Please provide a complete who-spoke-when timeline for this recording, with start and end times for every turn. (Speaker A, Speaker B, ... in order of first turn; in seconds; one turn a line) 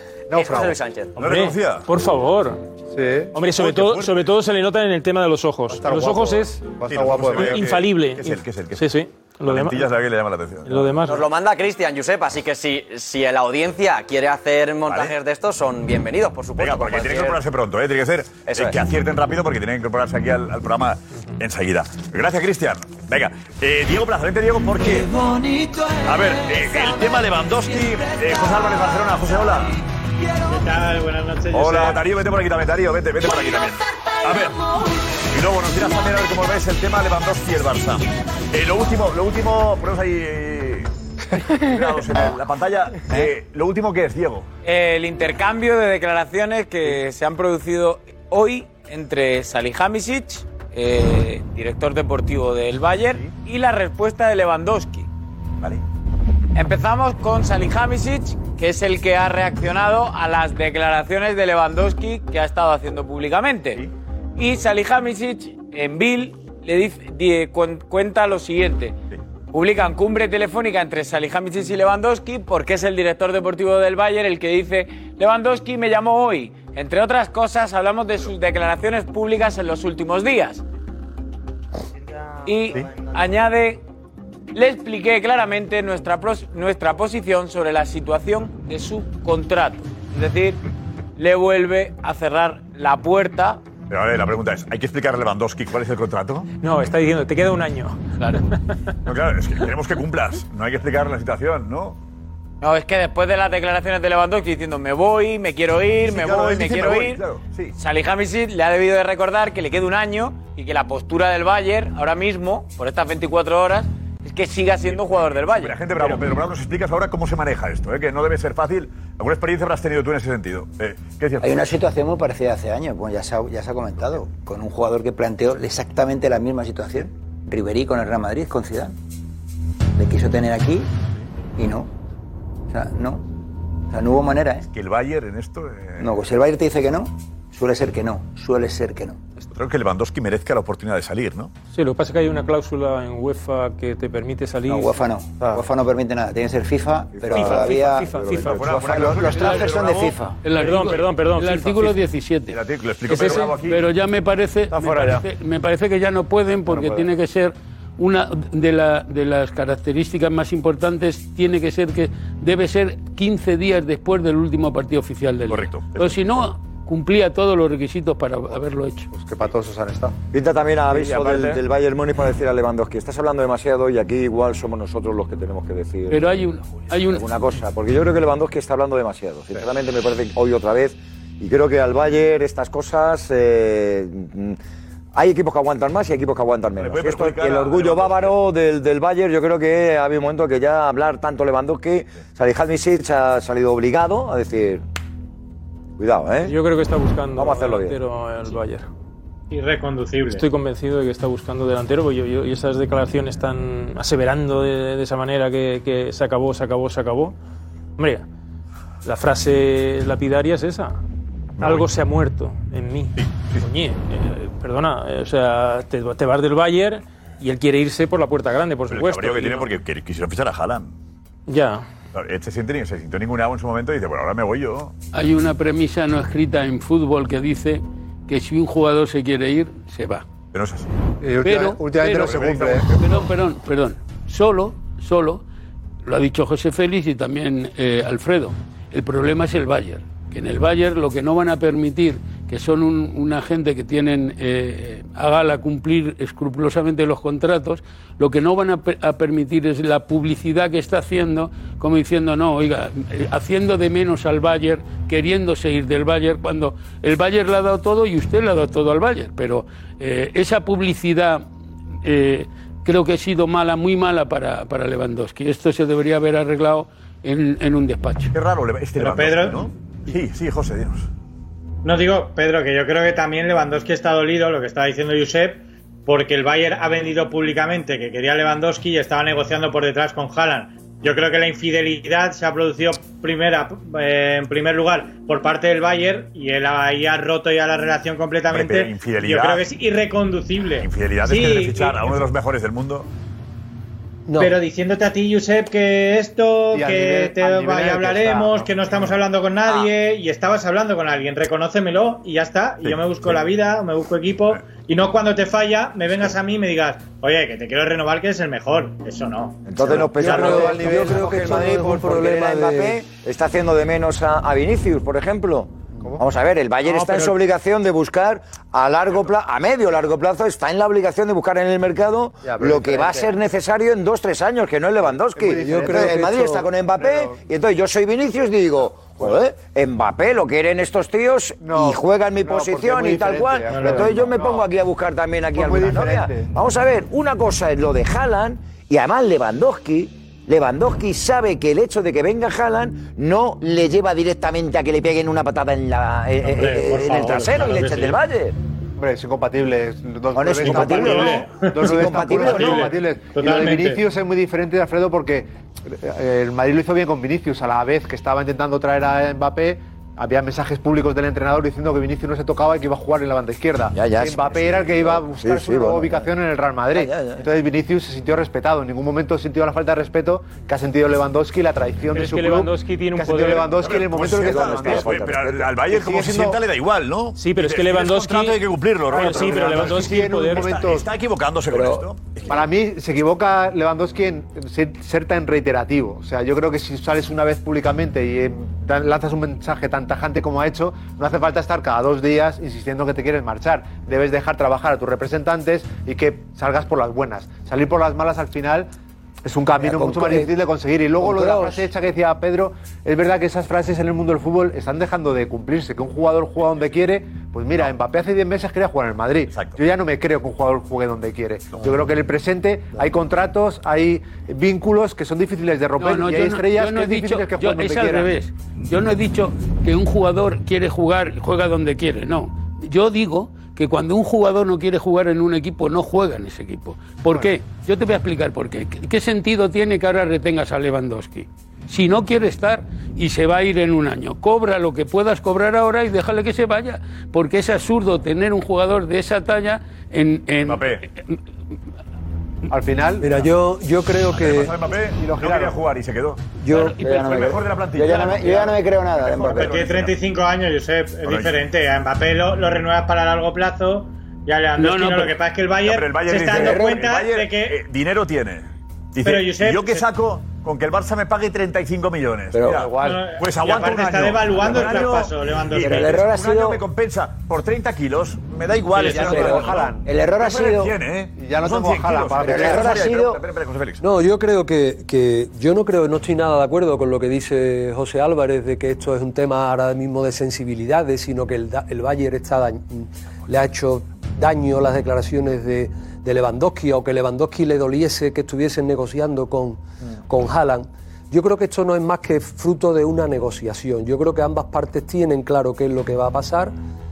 Speaker A: 0.3-0.8
Speaker B: 0.3-1.1
Speaker C: 1.2-2.6
Speaker D: 1.2-1.9
Speaker A: 2.9-3.3
Speaker C: 3.3-6.8
Speaker D: 3.5-4.2
Speaker A: 5.7-7.6
Speaker D: 6.8-8.9
Speaker C: 7.3-9.9
Speaker D: 9.4-11.0
Speaker C: 10.7-11.3
Speaker B: 11.1-17.4
Speaker D: 14.9-15.1
Speaker D: 16.6-25.1
Speaker B: 18.5-18.8
Speaker D: 26.0-29.8
Speaker E: 30.5-32.1
Speaker D: 31.5-34.6
Speaker D: 35.3-40.9
Speaker D: 41.5-44.5
Speaker F: 44.6-55.1
Speaker F: 56.5-63.8
Speaker F: 64.4-69.0
Speaker F: 69.5-80.6
Speaker F: 82.5-83.8
Speaker F: 84.5-90.6
Speaker F: 91.2-93.6
Speaker D: 93.9-96.5
Speaker C: 96.6-98.4
Speaker D: 99.1-102.0
Speaker F: 102.6-107.2
Speaker D: 106.0-107.8
Speaker F: 107.8-116.2
Speaker D: 114.8-121.6
Speaker G: 121.4-129.0
Speaker G: 130.0-130.9
Speaker G: 131.6-131.9
Speaker G: 132.7-133.2
Speaker G: 133.9-134.7
Speaker D: 134.7-136.2
Speaker G: 136.0-139.2
Speaker D: 139.5-141.5
Speaker C: 141.7-145.1
Speaker G: 144.7-150.4
Speaker C: 147.3-149.4
Speaker D: 147.4-147.7
Speaker D: 148.4-150.2
Speaker H: 150.4-169.1
Speaker C: 150.6-152.0
Speaker D: 152.5-153.9
Speaker C: 153.1-153.5
Speaker D: 165.5-166.3
Speaker A: 169.1-170.2
Speaker I: 170.3-176.3
Speaker D: 171.1-171.5
Speaker H: 176.1-177.3
Speaker I: 177.1-184.6
Speaker I: 185.1-194.8
Speaker D: 186.8-188.4
Speaker I: 196.0-196.5
Speaker C: 196.4-198.9
Speaker I: 197.3-198.0
Speaker E: 199.5-200.4
Speaker C: 200.3-207.3
Speaker C: 208.0-208.2
Speaker C: 209.0-211.0
Speaker D: 211.6-211.9
Speaker C: 211.6-219.7
Speaker D: 213.2-213.7
Speaker D: 218.9-220.9
Speaker C: 221.5-221.9
Speaker D: 222.1-224.9
Speaker H: 225.1-230.3
Speaker D: 230.5-230.9
Speaker A: 231.2-233.0
Speaker H: 231.4-235.4
Speaker D: 232.1-233.2
Speaker H: 236.1-261.5
Speaker H: 262.0-268.3
Speaker D: 268.3-271.1
Speaker E: 269.0-269.6
Speaker E: 271.8-292.1
Speaker D: 288.5-289.6
Speaker D: 290.8-293.1
Speaker J: 294.3-294.6
Speaker E: 294.4-309.7
Speaker A: 296.7-299.0
Speaker D: 302.8-303.4
Speaker I: 309.6-348.6
Speaker A: 309.8-311.7
Speaker J: 310.1-313.0
Speaker A: 316.0-316.3
Speaker A: 322.4-323.4
Speaker A: 325.1-327.4
Speaker J: 325.5-326.7
Speaker A: 331.6-334.7
Speaker E: 333.7-334.1
Speaker A: 335.5-336.5
Speaker E: 346.4-348.2
Speaker A: 349.0-376.6
Speaker I: 350.4-352.9
Speaker E: 350.6-354.0
Speaker I: 363.9-366.3
Speaker I: 366.9-367.5
Speaker C: 372.1-373.9
Speaker D: 373.7-382.7
Speaker I: 374.5-375.6
Speaker C: 377.4-380.8
Speaker A: 379.1-381.1
Speaker G: 381.7-382.1
Speaker A: 382.5-398.9
Speaker A: 399.4-418.3
Speaker J: 399.9-400.5
Speaker J: 401.2-401.8
Speaker D: 409.5-409.8
Speaker H: 416.0-441.4
Speaker D: 440.6-441.0
Speaker A: 442.7-443.4
Speaker J: 443.2-444.7
Speaker D: 444.3-450.2
Speaker A: 445.2-445.8
Speaker G: 446.7-449.8
Speaker H: 446.8-447.2
Speaker E: 449.5-457.8
Speaker D: 451.2-451.6
Speaker H: 454.8-455.4
Speaker D: 455.8-474.0
Speaker G: 456.5-457.0
Speaker E: 459.2-460.1
Speaker G: 462.5-462.9
Speaker E: 463.0-466.2
Speaker G: 465.8-466.7
Speaker E: 468.9-469.4
Speaker A: 469.1-470.1
Speaker G: 469.2-470.9
Speaker A: 471.4-473.0
Speaker G: 472.4-473.4
Speaker J: 474.0-496.7